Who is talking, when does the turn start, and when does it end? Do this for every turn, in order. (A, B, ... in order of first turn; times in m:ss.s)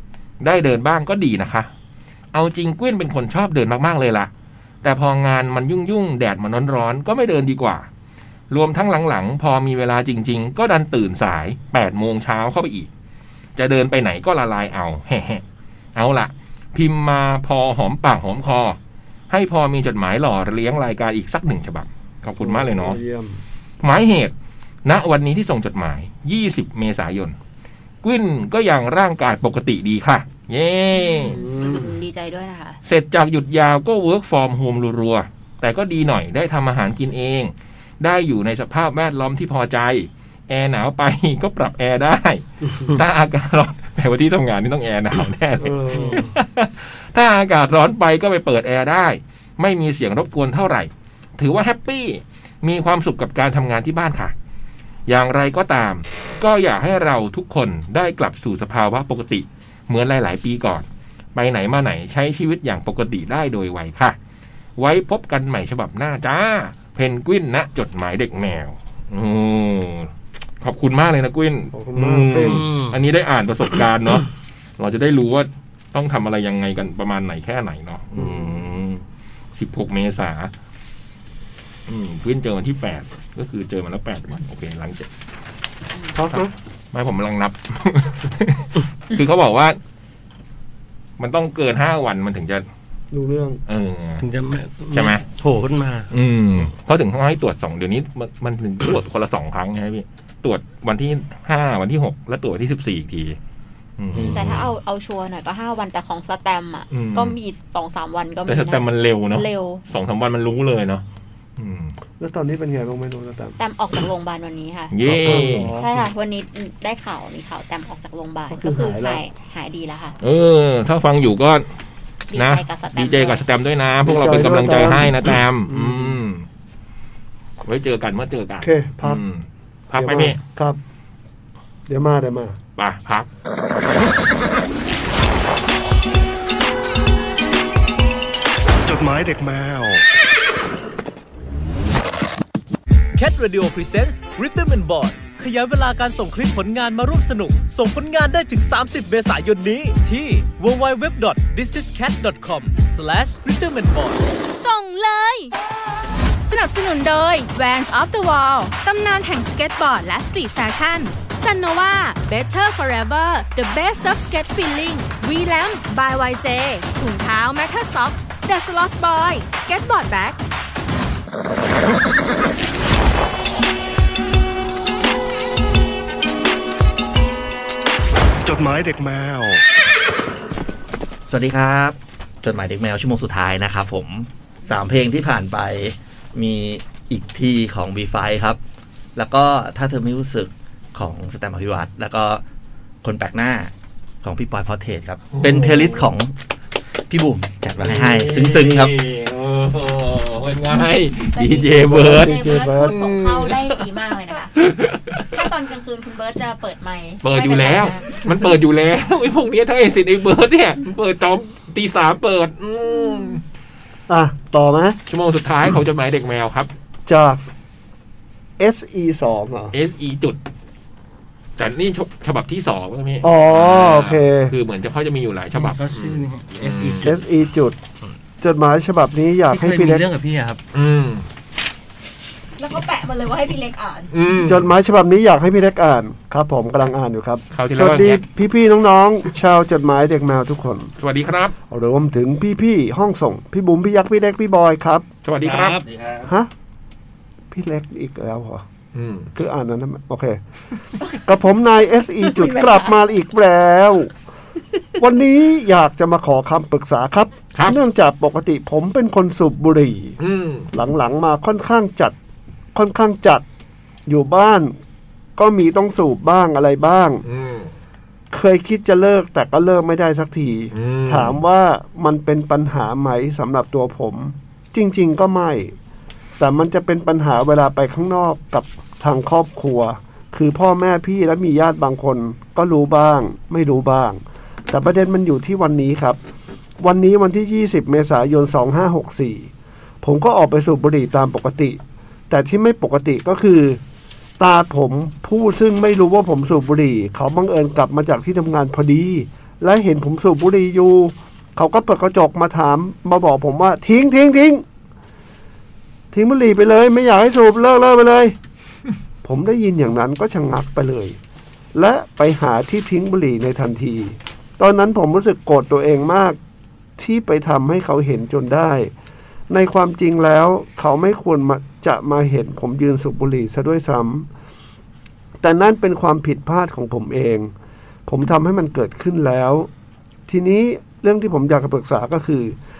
0:00.4-0:01.7 A
0:02.3-0:04.3 A
0:04.8-0:07.9 A
0:08.5-0:12.9 A
0:13.6-0:15.4 A
0:16.0-0:18.8 A
0:19.3-0:23.0 A
0:22.4-0:23.4 B
0:23.8-0:24.3 A
0:24.8-0:27.3 A
0:28.0-0:31.4 A
0:30.9-0:32.8 C
0:31.3-0:31.9 B
0:32.8-0:54.3 A
0:45.6-0:46.3 B
0:45.9-0:46.3 D
0:55.1-1:04.2 A
1:04.8-1:14.3 A
1:11.7-1:12.6 B
1:12.3-1:13.0 D
1:14.8-1:19.0 A
1:18.2-1:18.6 B
1:19.5-1:20.5 A
1:21.9-1:25.1 A
1:26.1-1:26.5 B
1:26.3-1:29.8 A
1:31.2-1:32.6 A
1:33.1-1:33.6 B
1:33.7-1:34.2 A
1:34.2-1:36.1 D
1:34.9-1:35.2 A
1:36.1-1:43.4 A
1:44.0-1:44.6 A
1:44.1-1:44.6 D
1:44.3-1:49.8 C
1:46.9-1:47.4 A
1:48.5-1:51.0 A
1:51.6-1:52.0 A
1:52.2-1:53.6 B
1:53.6-2:00.2 C
1:54.9-1:55.7 A
1:55.0-1:56.1 B
1:58.5-1:59.2 B
2:00.2-2:01.7 A
2:02.3-2:03.4 C
2:02.3-2:06.4 A
2:04.0-2:06.2 B
2:07.6-2:10.4 A
2:08.6-2:09.2 B
2:09.9-2:10.8 B
2:11.9-2:12.6 B
2:12.8-2:13.3 A
2:18.8-2:20.0 E
2:23.1-2:34.3 F
2:34.6-2:35.5 G
2:36.4-2:50.4 G
2:58.4-2:59.6 E
3:01.3-3:08.6 H
3:09.2-3:12.4 H
3:13.0-3:13.7 H
3:14.2-3:16.3 H
3:15.3-3:16.0 A
3:17.1-3:19.0 H
3:17.8-3:23.8 A
3:21.3-3:24.5 C
3:21.8-3:23.0 B
3:24.6-3:25.5 A
3:25.3-3:28.3 C
3:27.2-3:33.4 A
3:33.0-3:33.4 C
3:34.1-3:35.0 B
3:35.1-3:36.7 A
3:37.0-3:37.5 B
3:38.6-3:39.7 B
3:39.7-3:40.4 A
3:41.6-3:47.1 A
3:43.2-3:44.5 B
3:45.5-3:47.1 D
3:47.0-3:47.8 B
3:48.4-3:50.0 B
3:49.5-3:50.6 D
3:50.7-3:51.2 A
3:52.6-3:54.1 C
3:54.1-3:54.7 A
3:54.3-4:00.9 B
3:57.5-3:58.2 A
4:01.0-4:01.5 A
4:01.7-4:05.0 B
4:05.2-4:05.8 A
4:05.4-4:06.2 D
4:06.2-4:06.5 B
4:07.5-4:08.6 B
4:08.9-4:09.3 A
4:09.3-4:10.4 B
4:11.2-4:14.1 B
4:12.2-4:12.9 C
4:15.0-4:20.2 B
4:20.2-4:20.7 A
4:20.7-4:22.2 B
4:22.7-4:23.4 B
4:24.1-4:24.7 B
4:25.4-4:27.2 B
4:27.2-4:27.7 A
4:28.3-4:35.8 B
4:30.7-4:31.4 A
4:36.4-4:46.2 B
4:46.8-4:49.5 B
4:50.0-4:53.8 B
4:54.4-5:04.6 B
5:06.1-5:08.4 B
5:09.2-5:11.2 B
5:11.7-5:16.4 B
5:17.0-5:18.9 B
5:19.5-5:24.3 B
5:25.4-5:27.5 B
5:28.1-5:29.7 B
5:30.3-5:32.6 B